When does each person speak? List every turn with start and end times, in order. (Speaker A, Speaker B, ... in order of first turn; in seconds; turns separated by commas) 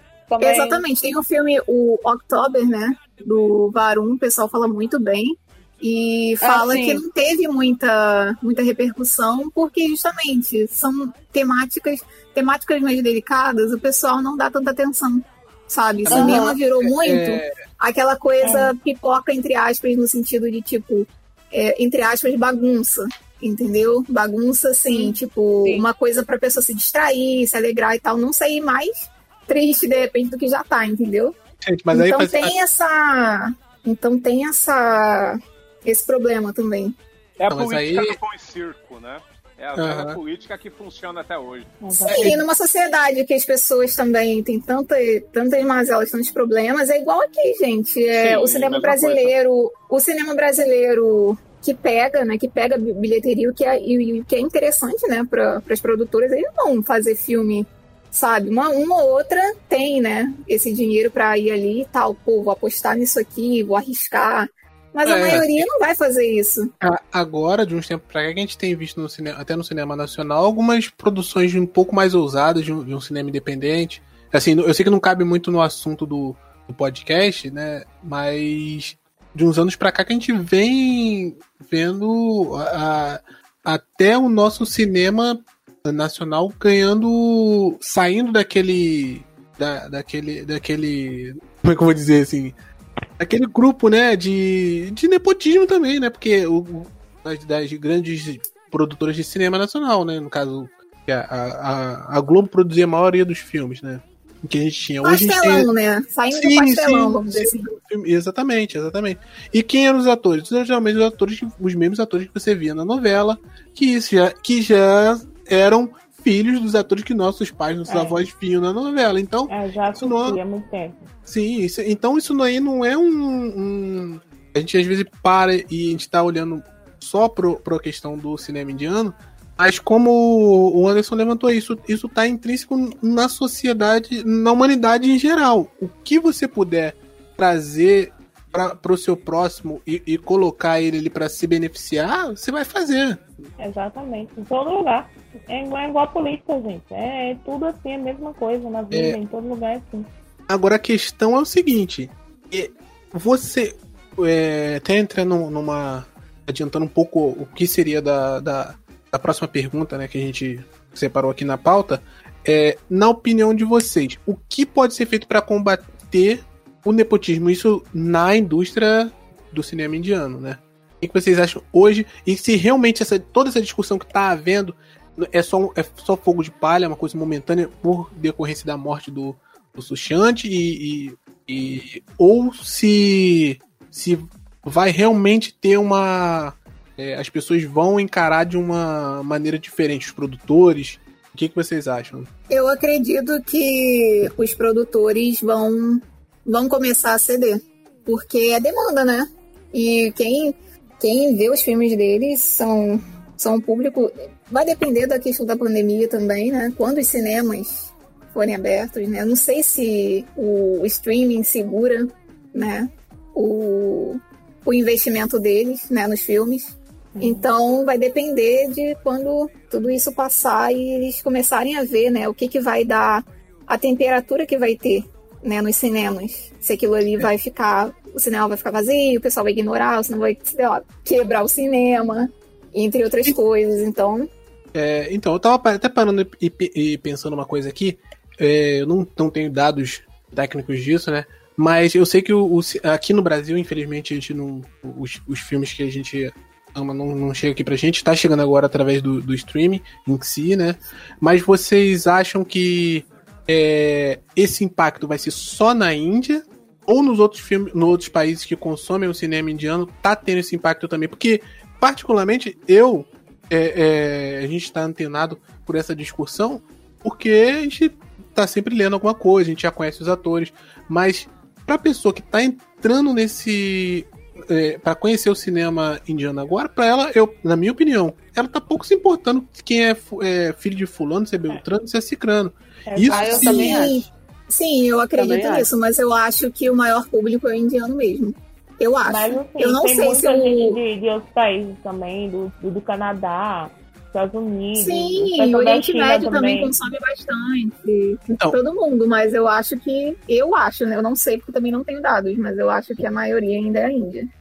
Speaker A: 0.3-0.8, Speaker B: 0.4-31.4, Speaker A: 6.4-7.0, Speaker C: 16.1-17.6, Speaker A: 16.1-16.5, Speaker D: 18.4-18.7, Speaker A: 24.9-25.9, Speaker C: 31.6-32.5, Speaker B: 31.9-37.0, Speaker E: 37.4-41.8, Speaker C: 37.5-38.2, Speaker C: 39.8-40.2, Speaker D: 41.8-42.4, Speaker B: 42.0-66.7, Speaker C: 42.1-42.4, Speaker E: 48.1-49.3, Speaker C: 65.0-65.7, Speaker C: 66.8-92.5, Speaker C: 93.2-105.7, Speaker B: 105.0-107.7, Speaker C: 106.3-120.4, Speaker D: 117.9-118.2, Speaker D: 119.5-121.0, Speaker C: 121.3-143.2, Speaker D: 143.6-150.1, Speaker C: 148.9-149.2, Speaker C: 150.5-192.3, Speaker B: 192.5-234.3, Speaker D: 217.1-217.5, Speaker C: 234.7-283.7, Speaker D: 282.9-283.9, Speaker A: 283.1-284.0, Speaker B: 283.3-290.8, Speaker A: 285.1-285.7, Speaker D: 289.1-296.7, Speaker B: 294.8-304.3